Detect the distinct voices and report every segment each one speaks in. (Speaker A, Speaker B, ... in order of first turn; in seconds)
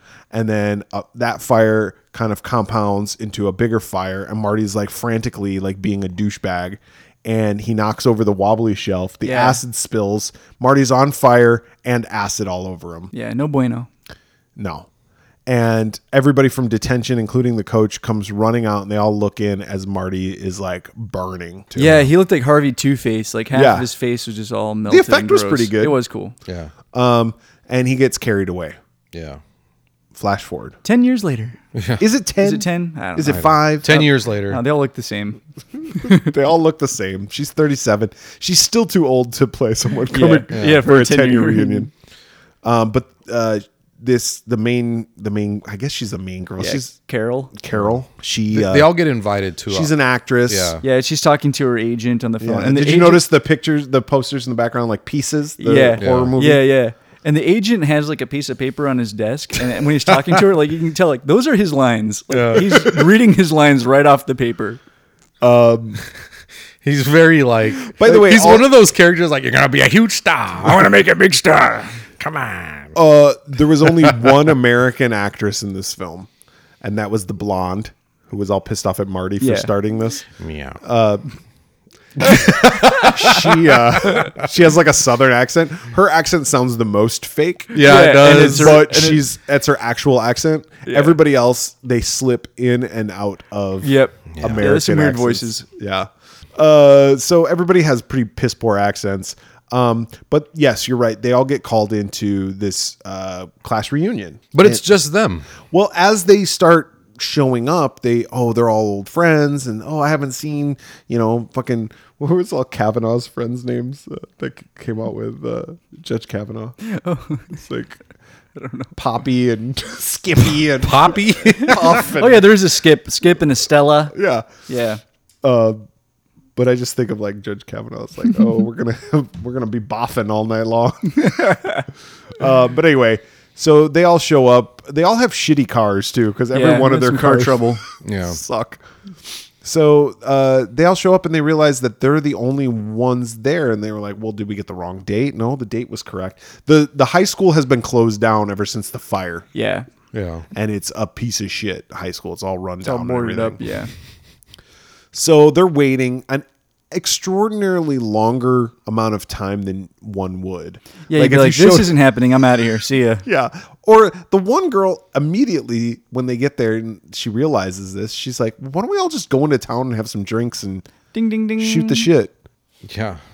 Speaker A: 0.3-13.1, 14.6-14.9, 15.4-22.1, 23.5-23.9, 24.9-26.0, 26.9-28.8, 30.1-30.8, 32.0-34.0, 36.0-41.9, 42.6-46.9, 47.5-48.9, 49.7-50.8, 52.4-56.6, 65.4-66.0, 67.8-68.7, 72.9-76.3, 76.8-80.2, 80.8-81.2, 82.2-104.8, 105.7-116.8, 117.5-118.0, 118.9-122.5, 124.1-124.5, 125.4-125.8, 126.5-131.6, 132.4-138.8, 139.6-149.5, 150.5-153.6, 155.1-161.9, 163.2-170.9, 171.6-172.3
Speaker B: 9.2-9.6, 13.1-13.9, 21.8-26.3, 30.8-31.6, 32.4-36.2, 40.1-41.9, 46.6-47.5, 50.8-53.2, 55.6-64.8, 79.4-79.7, 87.8-89.2, 90.9-91.2, 93.8-95.7, 116.8-117.6, 118.5-118.9, 121.7-124.1, 124.7-125.0, 131.2-131.8, 136.5-137.8, 149.5-149.8, 152.8-153.9, 161.1-163.2, 171.1-172.1
Speaker C: 26.4-26.7, 29.1-29.4, 31.7-32.0, 33.3-34.6, 40.5-40.9, 48.5-49.9, 50.5-50.8, 56.0-56.3, 62.3-62.9, 66.8-73.0, 73.8-74.4, 80.4-80.8, 82.2-84.2, 87.7-88.8, 94.3-94.7, 104.5-105.5, 120.8-122.1, 138.0-138.4, 150.1-150.4, 172.8-173.2